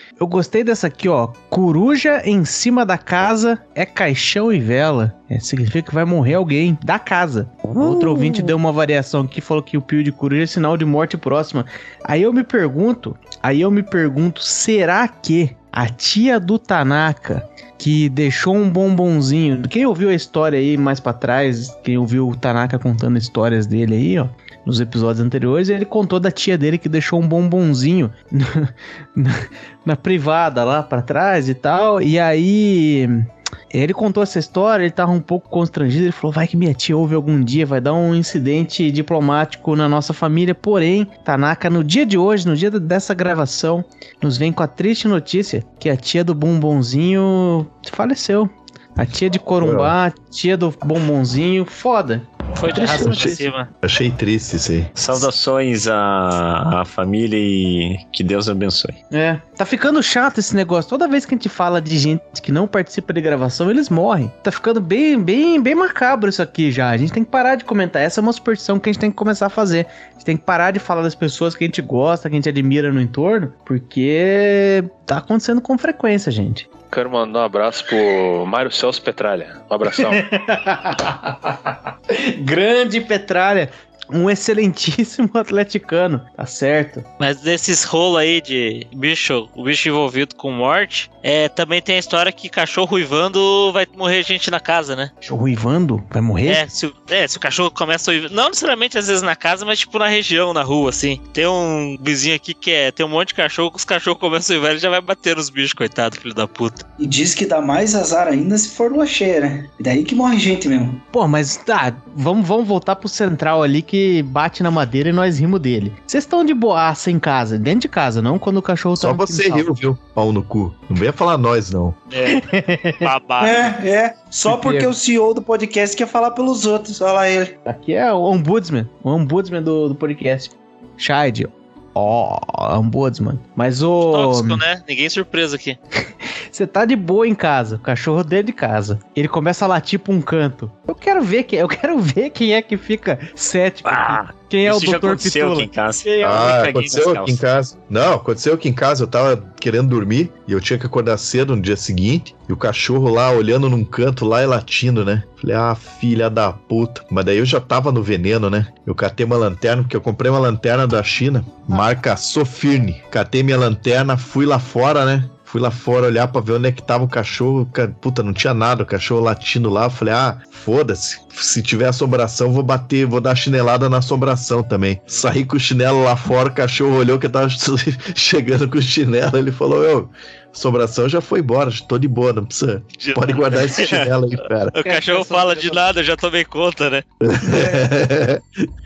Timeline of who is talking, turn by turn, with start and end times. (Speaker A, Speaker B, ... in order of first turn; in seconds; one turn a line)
Speaker A: 0.2-53.5
Speaker B: 7.6-8.5
Speaker C: 49.6-49.9
Speaker D: 52.5-53.7
Speaker C: 52.7-55.2
Speaker B: 55.0-59.0
Speaker A: 59.1-76.7
Speaker E: 76.9-80.2
Speaker A: 80.0-81.5
Speaker A: 82.1-87.0
Speaker D: 87.2-95.1
Speaker A: 95.2-96.6
Speaker D: 96.5-106.8
Speaker F: 107.0-111.0
Speaker A: 111.1-119.7
Speaker C: 119.0-122.0
Speaker D: 122.1-122.5
Speaker A: 122.3-123.1
Speaker D: 123.0-123.8
Speaker F: 123.4-127.6
Speaker A: 124.5-124.9
Speaker A: 127.7-134.6
Speaker D: 134.1-135.8
Speaker A: 136.5-146.5
Speaker B: 143.8-147.4
Speaker C: 146.2-184.8
Speaker D: 183.0-184.1
Speaker D: 184.7-187.0
Speaker A: 184.8-185.8
Speaker C: 187.2-188.4
Speaker F: 187.4-187.9